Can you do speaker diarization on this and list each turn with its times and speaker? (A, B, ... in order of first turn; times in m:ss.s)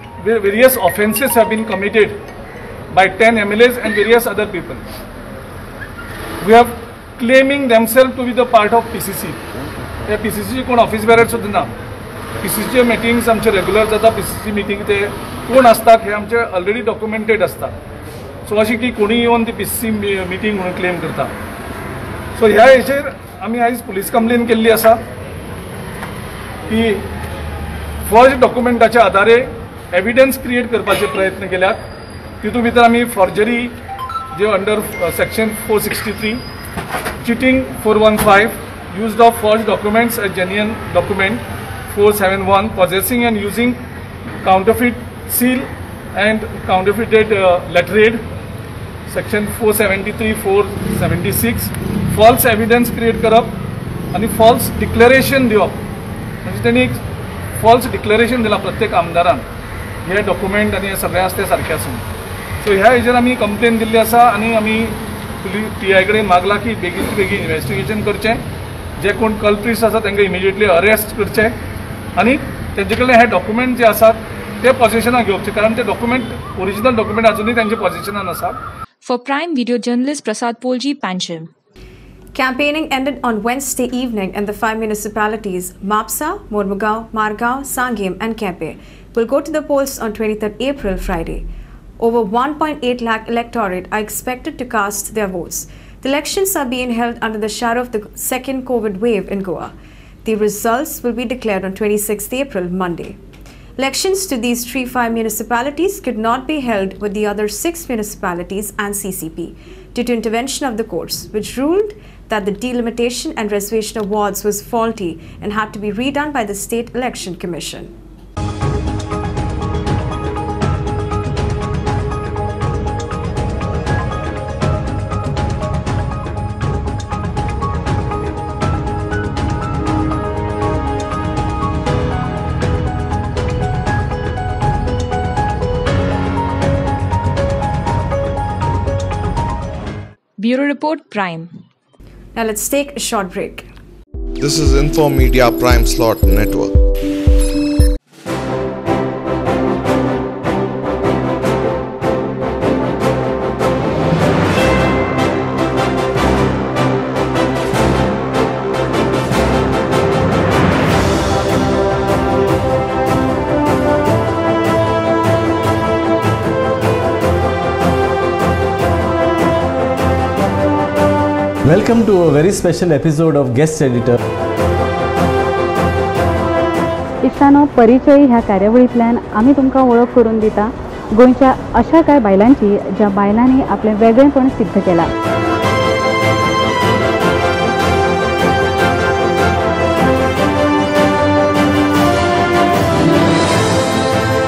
0:00.2-0:02.2 A
0:02.9-0:04.8 A
0:06.4-0:09.4 A
0:10.1-0:11.7 A
0:12.4-0:17.7 A
0:18.4-0:21.3 A
0:22.3-0:25.0 A
0:26.7-0:27.1 A
0:28.0-0:31.8 A
0:32.4-0:33.8 A
0:34.3-0:36.4 A
0:37.2-0:43.8 A
0:44.4-0:48.2 A
0:49.1-0:53.6 A
0:54.1-0:55.8 A
0:56.4-0:57.0 A
0:57.6-0:59.4 A
1:00.0-1:02.0 A
1:02.6-1:08.4 A
1:09.0-1:11.6 A
1:12.2-1:18.6 A
1:19.0-1:21.5 B
1:22.3-1:31.5 C
1:32.0-1:39.7 C
1:40.2-1:43.2 C
1:43.8-1:57.9 C
2:20.4-2:21.5 B
2:22.3-2:23.7 C
2:24.4-2:26.8 D
2:51.7-2:54.1 E
2:57.2-3:05.1 F